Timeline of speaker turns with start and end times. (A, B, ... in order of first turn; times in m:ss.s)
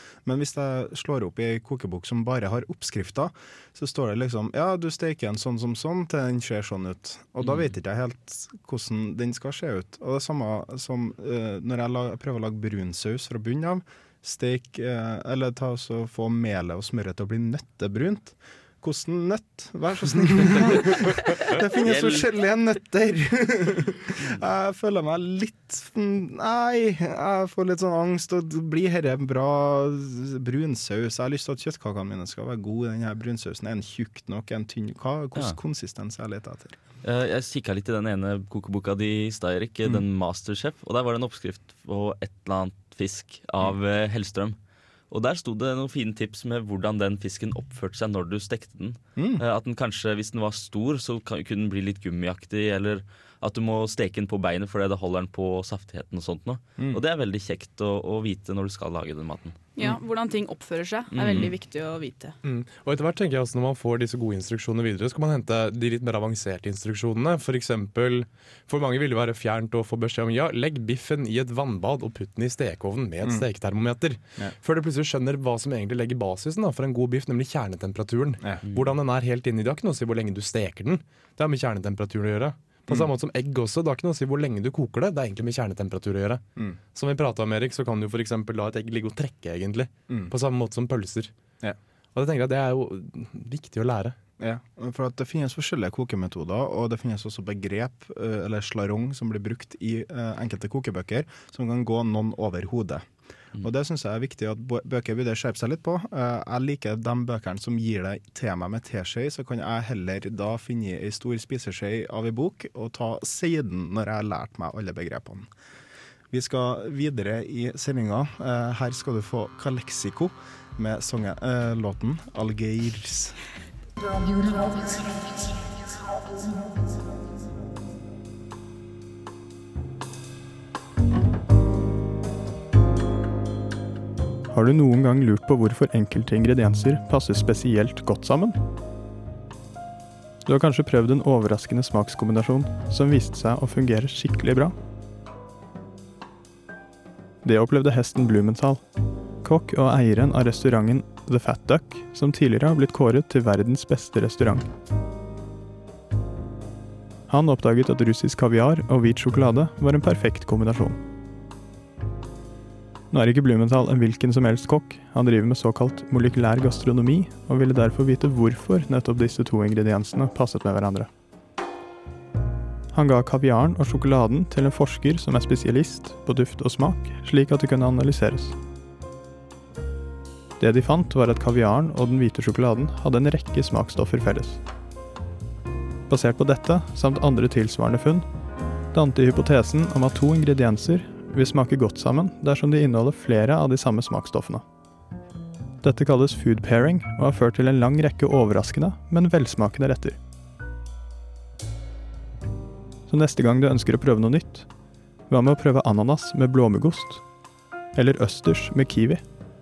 0:00.2-0:36.8 A
0:07.4-0:07.7 B
0:21.7-0:22.3 B
0:37.0-0:44.6 B
0:45.1-0:59.6 B
0:49.2-0:49.4 A
0:59.8-1:02.3 C
1:01.1-1:01.5 B
1:02.4-1:26.4 D
1:26.9-1:31.3 D
1:32.1-1:34.2 D
1:34.4-1:43.0 A
1:43.6-1:55.5 A
1:56.3-2:03.4 A
2:14.5-2:18.6 E
2:20.4-2:24.7 E
2:27.4-2:28.8 E
2:29.4-2:34.7 E
2:37.3-2:41.0 E
2:43.1-2:51.1 E
2:52.9-2:58.6 E
3:00.6-3:04.6 E
3:06.1-3:08.2 E
3:08.9-3:14.6 E
3:15.8-3:20.2 E
3:23.1-3:24.7 E
3:25.3-3:27.2 E
3:27.9-3:29.2 E